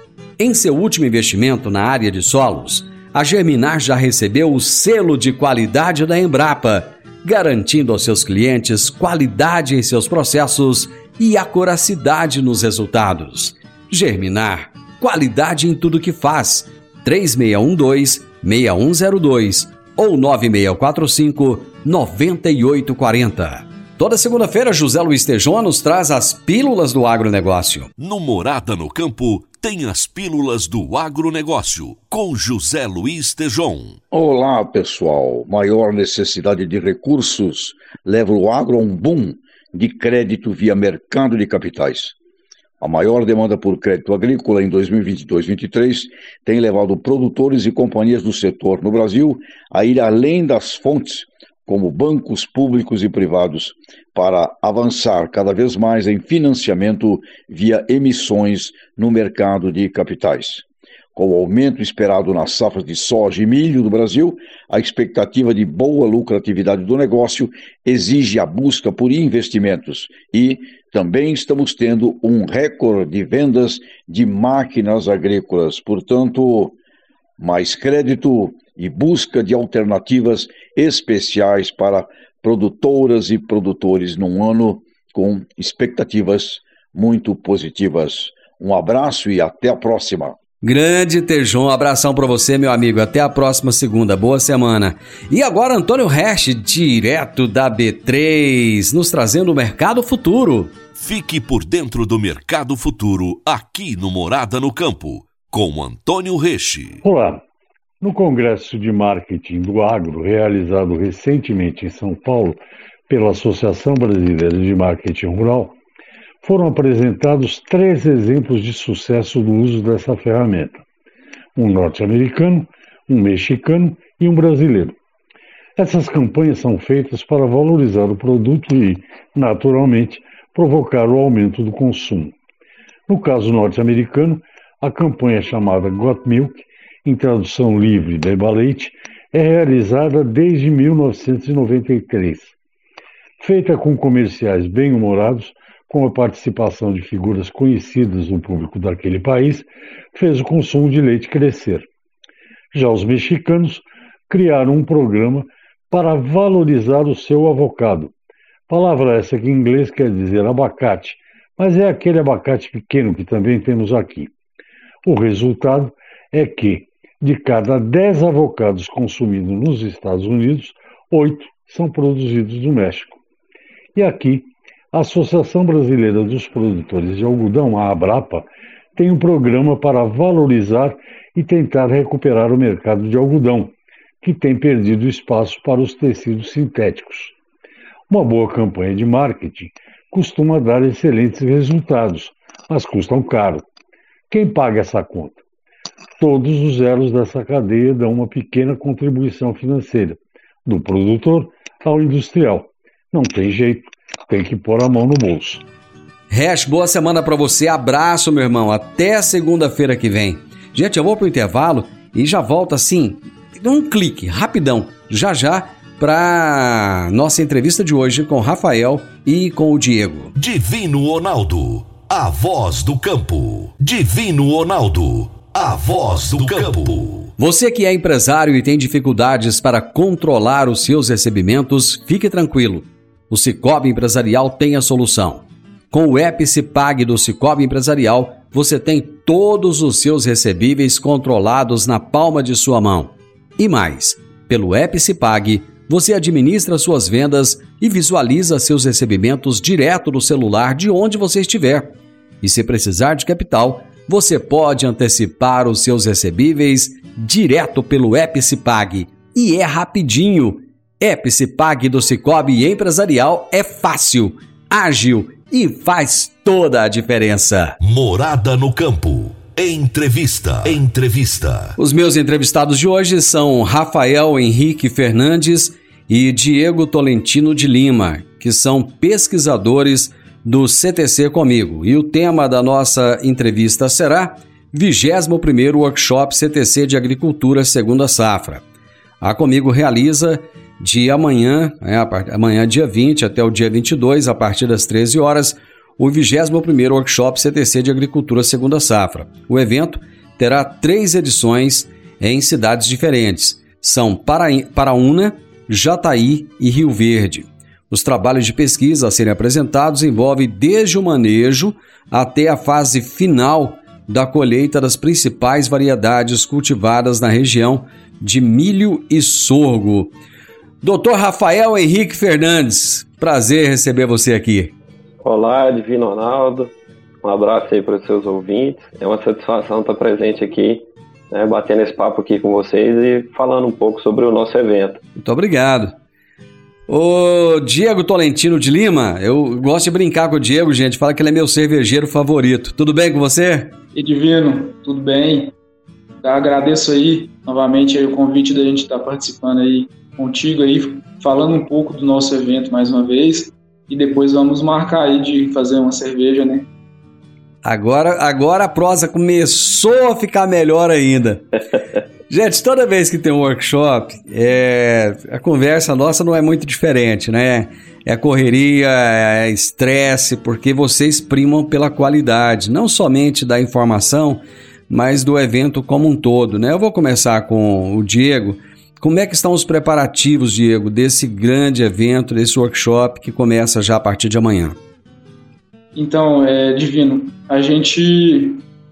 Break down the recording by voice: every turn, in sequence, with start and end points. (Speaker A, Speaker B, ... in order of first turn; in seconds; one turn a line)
Speaker A: 0.4-27.9
Speaker B: 28.0-34.0
Speaker C: 34.1-42.1
Speaker C: 42.8-60.6
Speaker C: 61.1-76.8
Speaker C: 77.4-90.4
Speaker A: 90.6-100.8
Speaker B: 101.0-107.0
Speaker D: 107.0-107.4
Speaker D: 108.0-115.8
Speaker D: 116.4-120.8
Speaker D: 121.6-125.0
Speaker D: 125.8-132.3
Speaker D: 133.1-142.5
Speaker D: 143.4-151.9
Speaker D: 152.7-158.1
Speaker D: 158.7-164.3
Speaker D: 165.1-173.2
Speaker D: 173.9-187.3
Speaker D: 188.1-193.7
Speaker D: 194.3-195.4
Speaker D: 196.2-205.6
Speaker A: 206.3-220.3
Speaker B: 220.4-227.3
Speaker A: 227.4-267.8
Speaker B: 267.8-271.7
Speaker A: 271.8-288.6
Speaker A: 289.2-320.1
Speaker A: 320.8-324.7
Speaker E: 325.2-326.7
Speaker E: 327.2-335.0
Speaker A: 335.2-335.9
Speaker A: 336.9-343.8
Speaker F: 343.9-345.5
Speaker F: 346.2-356.7
Speaker A: 357.6-361.5
Speaker A: 362.3-384.8
Speaker F: 385.9-388.6